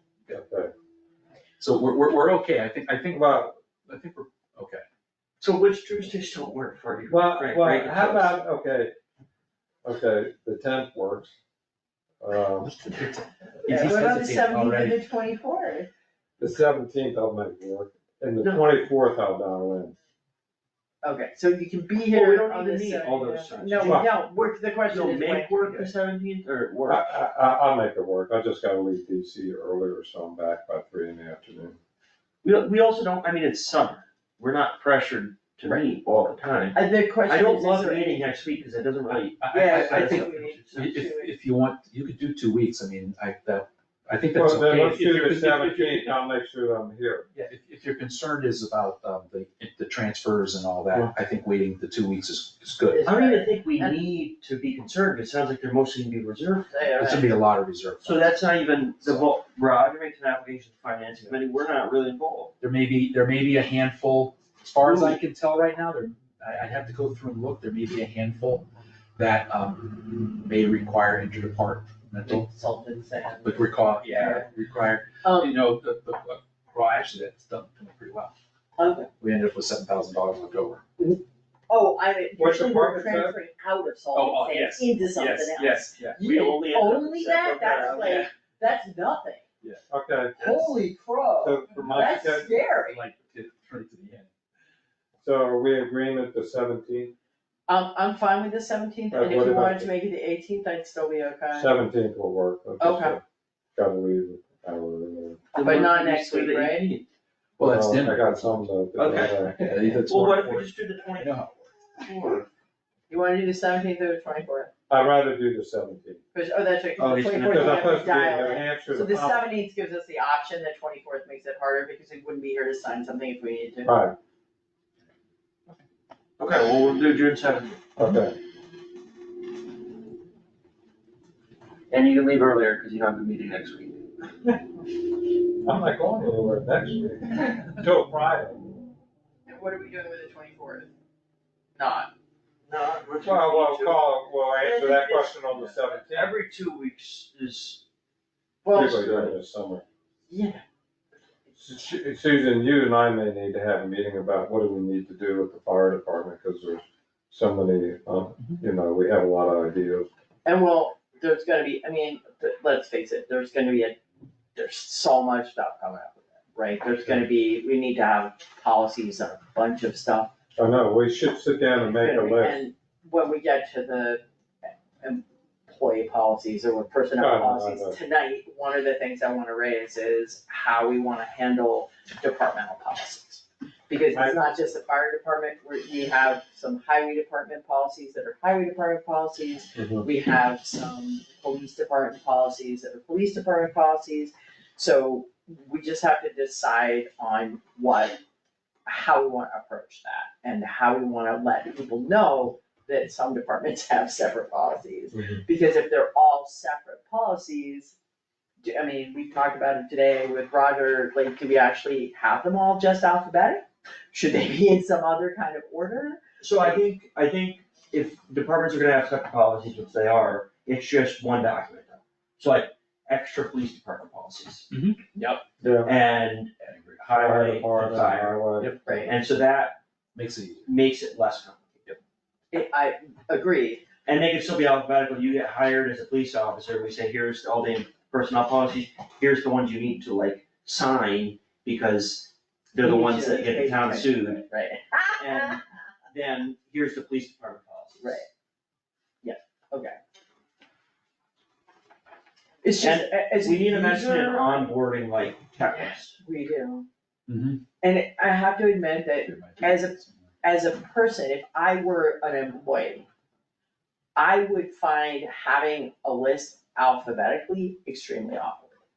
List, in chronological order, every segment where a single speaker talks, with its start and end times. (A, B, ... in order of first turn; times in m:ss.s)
0:00.3-0:00.7 A
0:01.6-0:04.8 B
0:03.1-0:03.5 A
0:05.4-0:08.4 C
0:07.1-0:08.9 A
0:09.8-0:11.3 A
0:12.2-0:12.8 A
0:13.0-0:15.0 B
0:13.6-0:15.9 D
0:16.4-0:19.9 A
0:18.4-0:18.7 C
0:21.0-0:25.9 D
0:22.1-0:24.1 C
0:23.8-0:24.1 A
0:24.9-0:27.2 C
0:26.9-0:31.8 A
0:32.4-0:41.1 C
0:36.7-0:38.2 D
0:39.4-0:46.1 B
0:39.5-0:41.3 D
0:44.3-0:47.3 A
0:47.3-0:53.1 B
0:52.9-0:54.0 D
0:53.0-0:56.7 C
0:56.7-0:57.3 D
0:57.0-0:58.3 B
0:58.0-1:02.5 C
1:02.6-1:12.5 B
1:04.8-1:05.2 C
1:12.2-1:14.4 D
1:13.4-1:18.3 B
1:15.2-1:15.6 D
1:18.8-1:19.1 D
1:19.2-1:20.8 B
1:21.0-1:29.4 D
1:22.4-1:23.4 A
1:24.1-1:26.2 B
1:26.2-1:28.3 C
1:29.9-1:30.4 A
1:30.4-1:33.0 D
1:30.4-1:30.7 C
1:31.4-1:32.5 A
1:31.7-1:32.1 B
1:32.9-1:34.3 B
1:35.2-1:37.1 A
1:37.7-1:41.7 D
1:39.1-1:39.9 A
1:41.5-1:43.2 A
1:42.8-1:43.2 D
1:43.7-1:45.4 A
1:45.5-1:47.0 C
1:45.6-1:46.9 D
1:47.6-1:51.7 B
1:47.6-1:50.0 A
1:49.0-1:49.3 C
1:50.1-1:51.3 C
1:52.0-1:52.5 C
1:53.1-1:54.7 D
1:54.9-1:56.2 A
1:56.3-2:03.9 D
1:57.0-1:57.9 C
1:57.4-1:59.4 A
2:03.8-2:04.1 A
2:06.4-2:07.8 C
2:08.0-2:08.4 A
2:11.9-2:14.0 C
2:15.6-2:18.6 A
2:19.5-2:20.9 D
2:21.8-2:22.1 D
2:22.7-2:27.8 C
2:23.2-2:26.3 A
2:28.6-2:29.2 D
2:28.7-2:29.8 A
2:28.8-2:29.4 C
2:30.3-2:30.6 D
2:31.6-2:40.1 A
2:40.4-2:44.0 D
2:44.5-2:50.3 D
2:50.6-2:52.7 A
2:51.8-2:54.2 D
2:55.0-3:18.2 D
2:57.2-2:58.0 A
3:04.1-3:04.4 A
3:09.8-3:10.1 A
3:18.8-3:27.9 D
3:25.1-3:25.4 A
3:28.6-3:36.8 D
3:36.4-3:44.7 C
3:44.7-3:45.0 B
3:45.2-3:45.4 D
3:45.6-3:45.9 A
3:45.8-3:49.8 C
3:46.6-3:47.1 B
3:47.1-3:48.7 A
3:47.7-3:49.0 B
3:48.8-3:49.1 D
3:50.1-3:50.7 B
3:50.6-3:51.8 C
3:52.5-3:53.8 D
3:54.0-4:04.4 C
4:02.8-4:05.6 D
4:05.2-4:08.2 C
4:08.0-4:08.2 D
4:09.2-4:10.0 D
4:12.6-4:14.7 D
4:12.8-4:16.2 C
4:15.7-4:16.9 D
4:17.3-4:17.6 B
4:17.8-4:23.1 D
4:19.2-4:20.3 B
4:24.2-4:28.7 D